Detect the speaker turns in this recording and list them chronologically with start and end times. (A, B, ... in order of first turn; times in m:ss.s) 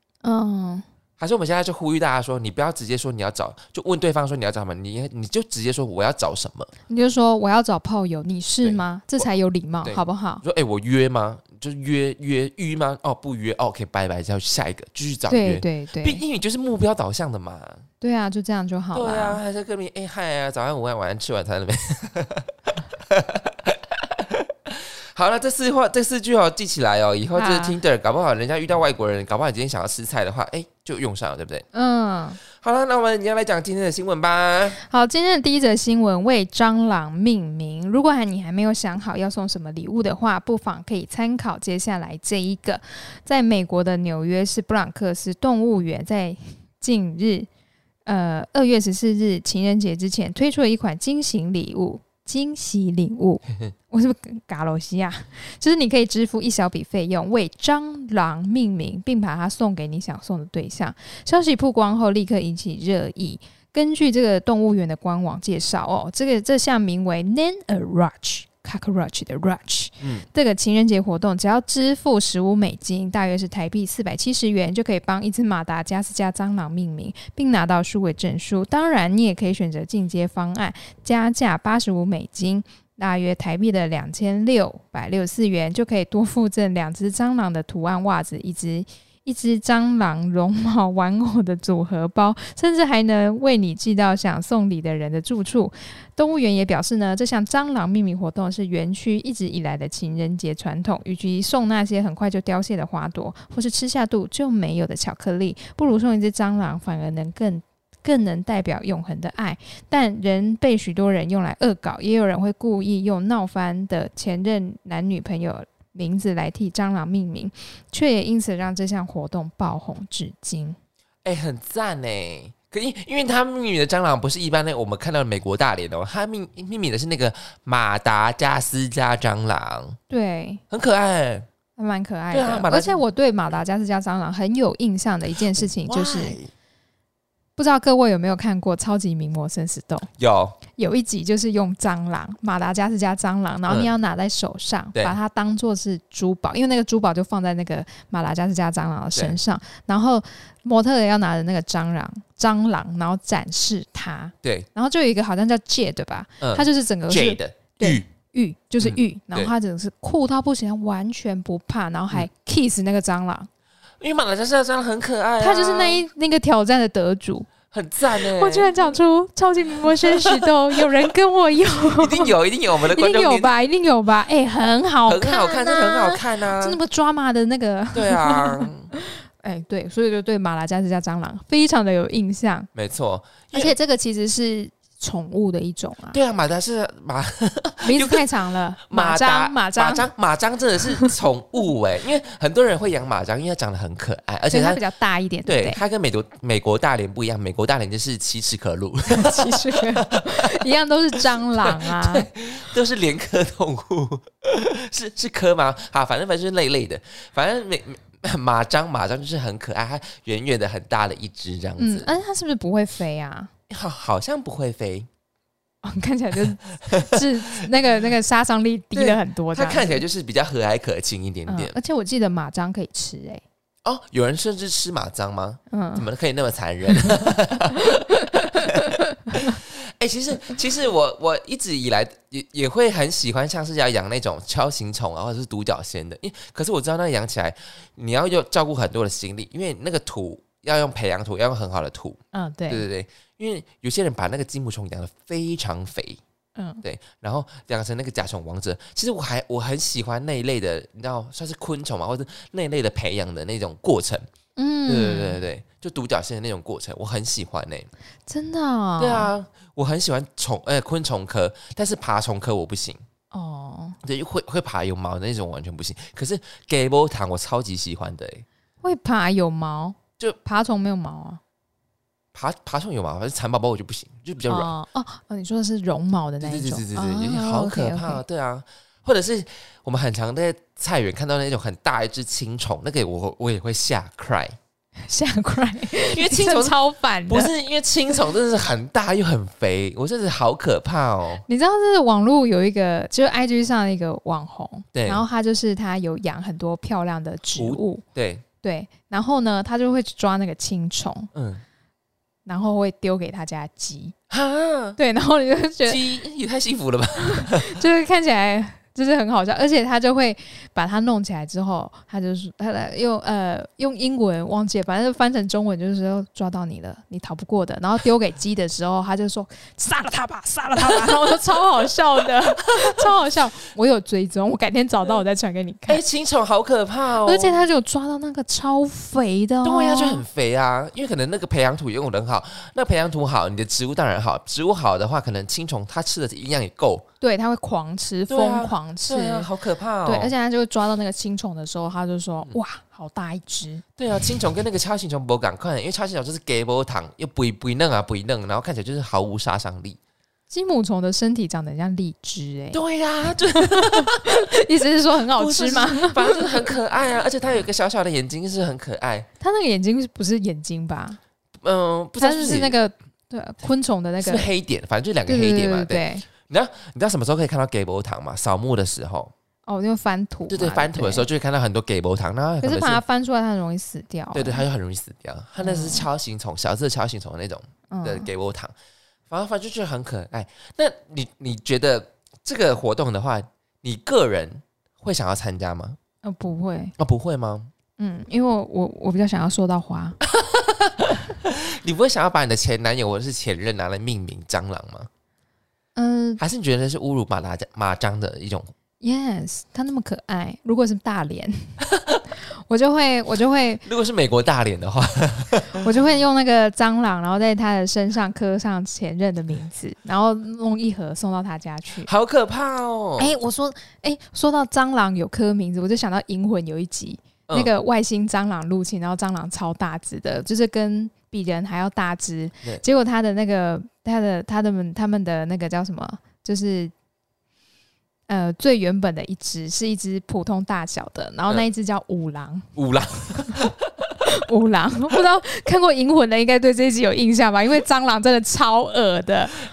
0:00.2-0:00.8 A
0:01.2-0:06.7 B
0:06.9-0:10.4 A
0:08.6-0:09.2 B
0:09.8-0:17.8 B
0:15.3-0:16.2 A
0:18.0-0:19.4 A
0:18.9-0:31.6 B
0:27.3-0:27.8 A
0:31.7-0:32.4 A
0:32.5-0:34.8 B
0:34.7-0:47.5 A
0:48.0-2:00.8 A
1:10.0-1:10.2 B
2:01.2-2:10.0 B
2:10.1-2:10.6 A
2:10.7-2:11.5 B
2:11.8-2:16.4 A
2:12.3-2:13.0 B
2:15.5-2:16.5 B
2:17.6-2:20.1 A
2:20.2-2:20.6 B
2:20.7-2:43.5 A
2:23.7-2:23.9 B
2:34.4-2:34.7 B
2:36.4-2:38.0 B
2:38.8-2:39.5 B
2:44.0-2:46.0 B
2:45.4-2:47.5 A
2:47.7-2:48.7 B
2:48.1-3:02.7 A
2:49.8-2:50.8 B
2:51.8-2:53.5 B
2:55.0-2:56.8 B
2:57.9-2:58.9 B
3:02.7-3:03.7 B
3:03.5-3:06.2 A
3:06.1-3:08.2 B
3:07.8-3:10.1 A
3:08.8-3:14.8 B
3:14.5-3:15.8 A
3:15.4-3:20.6 B
3:19.1-3:22.3 A
3:21.6-3:32.1 B
3:31.8-3:33.5 A
3:33.7-3:35.1 B
3:35.8-3:40.0 A
3:36.8-3:37.7 B
3:38.9-3:41.7 B
3:41.5-3:43.4 A
3:43.8-4:06.2 B
3:45.7-3:46.0 A
3:47.9-3:49.5 A
4:02.3-4:02.8 A
4:06.6-4:06.8 A
4:06.8-4:14.2 B
4:14.6-4:15.4 A
4:14.9-4:17.9 B
4:18.3-4:19.3 A
4:19.0-4:23.0 B
4:23.3-4:24.0 A
4:24.0-4:28.4 B
4:28.8-4:31.4 A
4:32.3-4:34.7 B
4:34.5-4:38.2 A
4:36.4-4:44.6 B
4:45.1-4:47.5 A
4:45.9-4:51.4 B
4:51.5-4:58.0 A
4:54.9-4:55.2 B
4:57.5-4:58.4 B
4:58.6-5:01.3 A
5:01.3-5:01.6 B
5:02.4-5:04.1 A
5:04.3-5:05.0 B
5:05.0-5:06.0 A
5:05.8-5:07.8 B
5:07.2-5:26.0 A
5:20.8-5:21.2 B
5:22.8-5:23.1 B
5:25.9-5:27.6 B
5:27.2-5:30.2 A
5:29.6-5:37.0 B
5:37.2-5:39.5 A
5:38.3-5:40.3 B
5:40.0-5:43.8 A
5:44.0-5:50.0 B
5:50.5-5:52.8 A
5:52.7-5:54.4 B
5:53.4-5:56.7 A
5:55.3-5:59.3 B
5:59.4-6:01.2 A
6:01.6-6:02.7 B
6:02.2-6:04.5 A
6:04.2-6:09.3 B
6:05.3-6:06.2 A
6:09.7-6:11.3 A
6:10.5-6:13.0 B
6:12.6-6:14.6 A
6:14.3-6:18.7 B
6:15.6-6:16.1 A
6:17.9-6:18.3 A
6:19.3-6:26.0 B
6:26.2-6:26.9 A
6:27.0-6:27.7 B
6:28.0-6:30.2 A
6:30.2-6:35.1 B
6:36.0-6:36.4 A
6:36.4-6:38.7 B
6:39.0-6:41.8 A
6:42.0-6:42.2 B
6:42.7-6:43.8 A
6:43.8-6:45.9 B
6:45.7-6:52.1 A
6:52.0-6:53.3 B
6:53.2-7:06.9 A
7:08.3-7:12.7 A
7:12.8-7:14.1 B
7:14.2-7:19.6 A